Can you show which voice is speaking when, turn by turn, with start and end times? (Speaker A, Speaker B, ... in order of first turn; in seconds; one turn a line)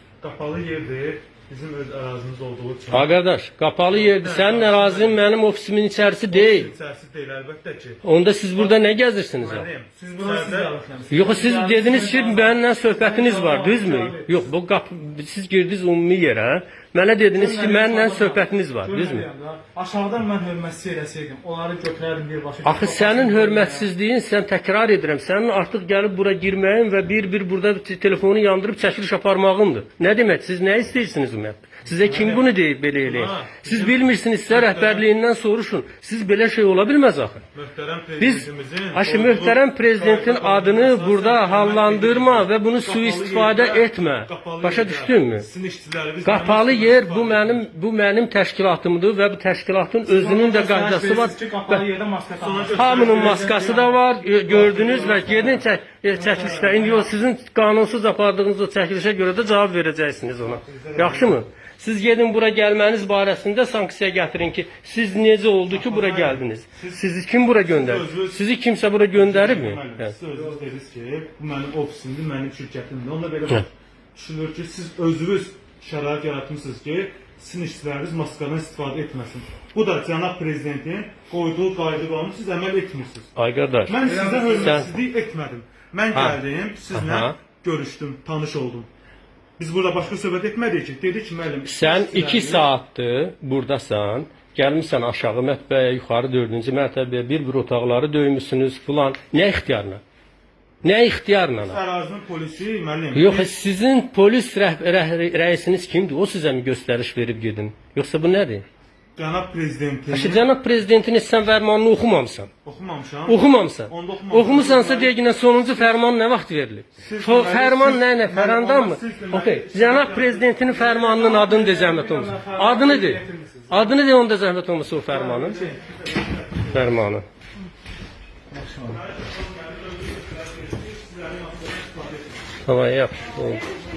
Speaker A: 0.2-3.2
Speaker B: 2.9-6.7
Speaker A: 3.9-5.2
Speaker A: 6.3-8.0
Speaker B: 8.0-9.7
Speaker A: 8.5-10.7
Speaker C: 9.9-14.5
Speaker B: 11.1-19.3
Speaker C: 17.3-23.9
Speaker B: 22.6-37.5
Speaker A: 31.9-35.1
Speaker A: 37.5-47.6
Speaker B: 38.2-45.5
Speaker B: 46.2-51.8
Speaker C: 50.0-54.0
Speaker A: 52.4-53.8
Speaker B: 52.7-70.1
Speaker A: 54.5-55.6
Speaker C: 54.8-55.5
Speaker C: 56.1-57.1
Speaker A: 60.4-61.4
Speaker A: 65.7-67.0
Speaker A: 67.6-68.4
Speaker A: 69.1-83.3
Speaker B: 83.3-84.0
Speaker A: 83.9-88.9
Speaker C: 84.0-84.9
Speaker B: 84.5-84.9
Speaker B: 86.1-86.4
Speaker B: 86.9-87.3
Speaker A: 89.6-92.7
Speaker B: 91.7-100.0
Speaker B: 100.8-101.8
Speaker A: 101.5-103.5
Speaker B: 103.1-108.7
Speaker A: 109.2-110.4
Speaker B: 110.1-112.5
Speaker A: 112.6-115.1
Speaker B: 113.3-125.6
Speaker A: 117.0-121.1
Speaker C: 121.0-124.0
Speaker C: 125.1-125.8
Speaker A: 125.3-126.9
Speaker B: 126.7-127.2
Speaker C: 128.5-129.0
Speaker A: 128.8-132.5
Speaker B: 132.6-133.7